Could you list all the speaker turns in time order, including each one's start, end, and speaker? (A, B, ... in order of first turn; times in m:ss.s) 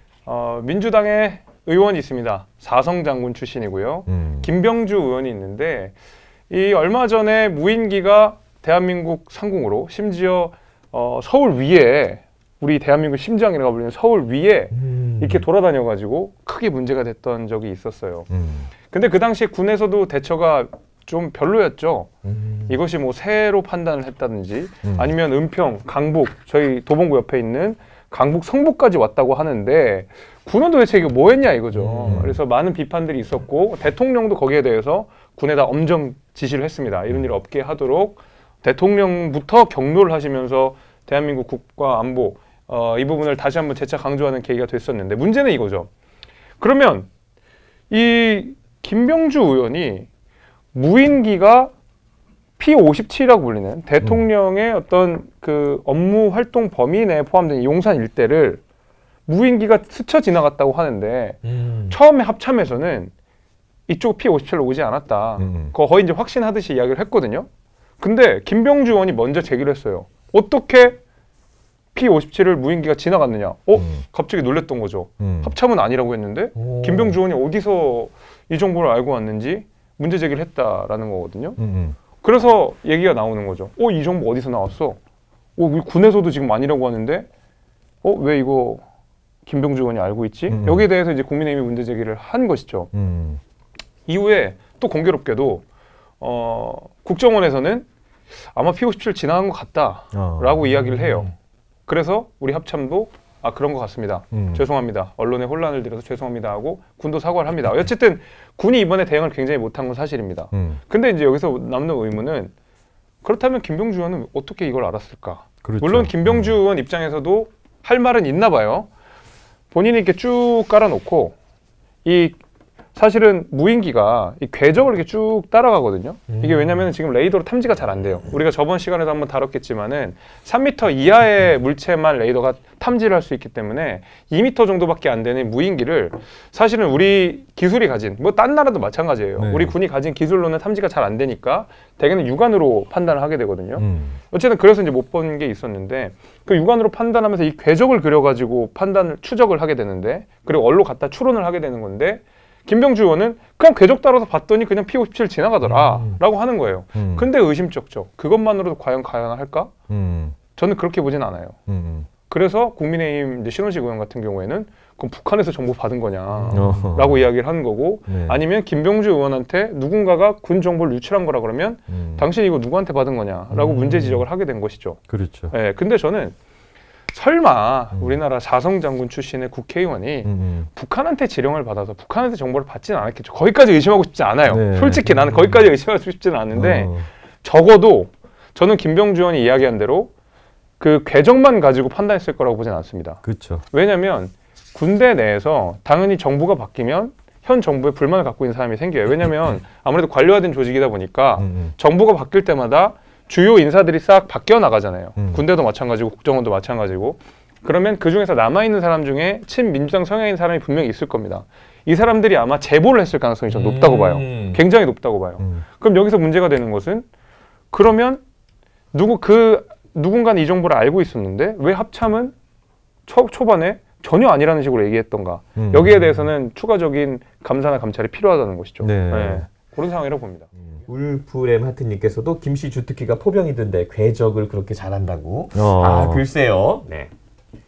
0:00.2-0:05.9 A
0:04.1-0:04.5 B
0:06.5-0:18.3 A
0:14.7-0:15.4 C
0:18.3-0:18.7 B
0:18.8-0:22.1 A
0:22.2-0:22.7 C
0:22.7-0:45.9 A
0:24.8-0:25.1 B
0:31.8-0:32.3 B
0:32.0-0:32.2 C
0:46.6-0:47.1 A
0:47.9-0:50.1 A
0:50.7-0:51.7 A
0:52.6-0:58.6 A
0:59.2-1:03.1 A
1:01.4-1:02.0 C
1:03.9-1:07.5 A
1:05.4-1:05.7 B
1:08.0-1:11.0 A
1:11.9-1:21.6 A
1:13.8-1:14.0 B
1:15.2-1:15.5 B
1:16.5-1:17.2 C
1:21.6-1:22.0 B
1:22.2-1:25.0 A
1:25.6-1:27.3 A
1:28.0-1:28.8 A
1:29.4-1:32.9 A
1:30.5-1:30.8 B
1:32.9-1:33.4 B
1:34.1-1:35.6 A
1:36.2-1:37.8 A
1:38.5-1:41.3 A
1:40.1-1:41.2 B
1:41.9-1:52.5 A
1:44.3-1:44.6 B
1:50.5-1:50.8 B
1:53.2-1:58.9 A
1:55.6-1:56.6 B
1:59.7-2:01.4 A
2:02.0-2:02.4 A
2:02.9-2:39.7 A
2:06.3-2:06.9 C
2:19.4-2:19.7 B
2:23.8-2:24.2 B
2:35.6-2:36.2 C
2:36.9-2:37.2 B
2:39.9-2:40.4 B
2:40.5-2:41.6 A
2:41.7-2:42.1 B
2:42.3-2:56.4 A
2:46.3-2:46.8 C
2:46.5-2:47.2 B
2:48.1-2:48.4 B
2:51.9-2:52.2 B
2:53.5-2:54.2 B
2:55.1-2:55.5 B
2:57.1-3:10.1 A
3:00.2-3:00.7 B
3:04.4-3:05.7 B
3:06.5-3:07.1 B
3:10.8-3:37.0 A
3:13.2-3:13.6 B
3:21.4-3:21.7 B
3:25.2-3:25.4 B
3:33.5-3:34.6 C
3:35.4-3:35.6 B
3:37.7-3:38.2 A
3:38.9-3:42.3 A
3:43.1-3:50.5 A
3:45.6-3:46.1 B
3:48.8-3:49.4 B
3:50.8-3:57.1 C
3:55.5-3:56.2 B